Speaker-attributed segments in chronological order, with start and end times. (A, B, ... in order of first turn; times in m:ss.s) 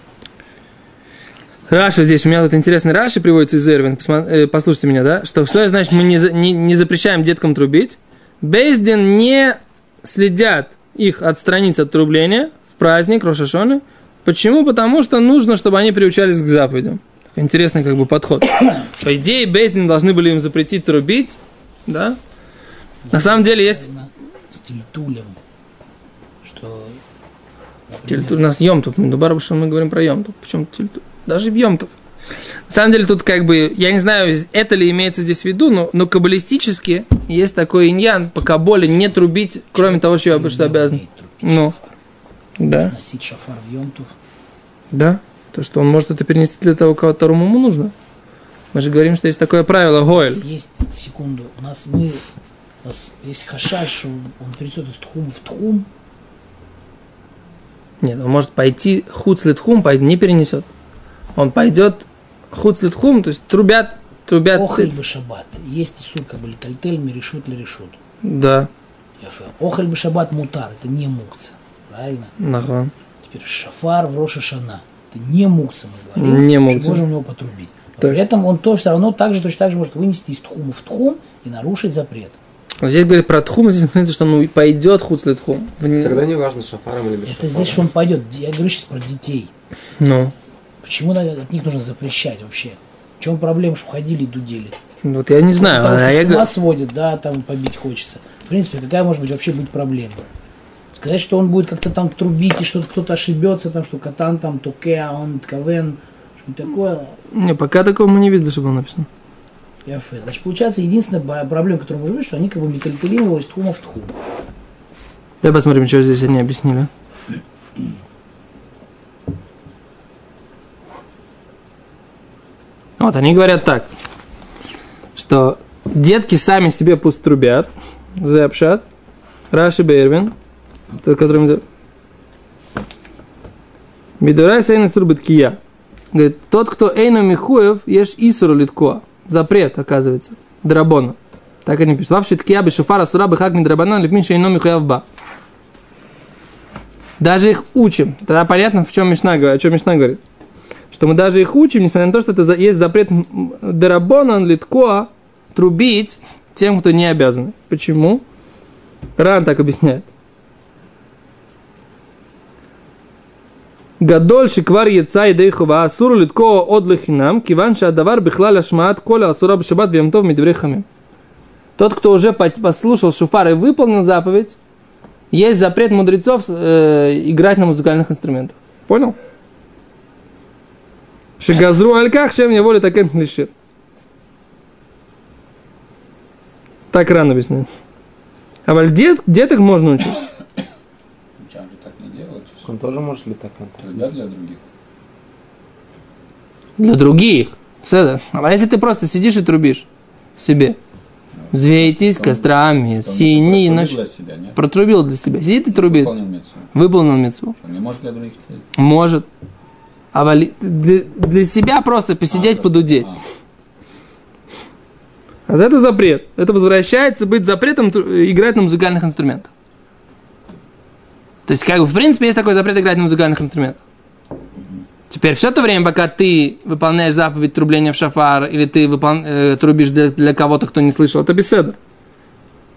0:01.7-0:22.2 A
0:23.0-0:25.4 B
0:23.1-0:23.9 A
0:26.4-0:27.0 B
0:27.9-0:28.4 B
0:28.1-0:31.9 A
0:32.7-0:41.7 A
0:39.8-0:42.0 B
0:42.6-0:42.9 A
0:42.8-0:44.2 B
0:44.9-0:47.9 A
0:48.7-0:50.4 A
0:50.1-0:52.2 B
0:52.8-0:55.9 B
0:58.0-1:00.7 A
1:01.4-1:04.9 A
1:04.5-1:08.0 B
1:08.2-1:08.7 A
1:09.2-1:12.4 B
1:12.4-1:12.9 A
1:13.2-1:22.4 B
1:16.2-1:17.1 A
1:22.8-1:26.2 A
1:25.9-1:27.9 C
1:27.2-1:29.5 B
1:30.0-1:30.3 A
1:30.8-1:34.8 B
1:35.0-1:36.5 A
1:35.6-1:40.3 B
1:41.0-1:47.2 B
1:47.3-1:49.1 A
1:49.8-1:54.2 B
1:55.4-1:56.9 A
2:03.0-2:03.9 A
2:05.2-2:08.8 A
2:09.5-2:10.3 A
2:11.0-2:11.6 A
2:14.2-2:15.6 A
2:16.1-2:25.0 A
2:27.2-2:30.2 A
2:30.9-2:38.2 A
2:39.2-2:40.1 A
2:44.0-2:50.9 A
2:51.8-2:54.6 A
2:55.3-2:59.2 A
3:01.4-3:03.5 A
3:06.9-3:07.7 A
3:08.7-3:10.2 A
3:11.4-3:12.7 D
3:12.6-3:14.1 C
3:13.8-3:14.6 D
3:16.8-3:19.9 A
3:20.4-3:20.8 A
3:21.4-3:24.6 D
3:21.5-3:24.0 A
3:24.6-3:26.1 A
3:25.7-3:26.7 D
3:26.7-3:27.6 A
3:27.6-3:28.6 D
3:28.8-3:29.3 A
3:30.1-3:33.1 A
3:32.3-3:33.2 D
3:35.5-3:39.5 A
3:41.5-3:43.8 A
3:45.1-3:51.8 A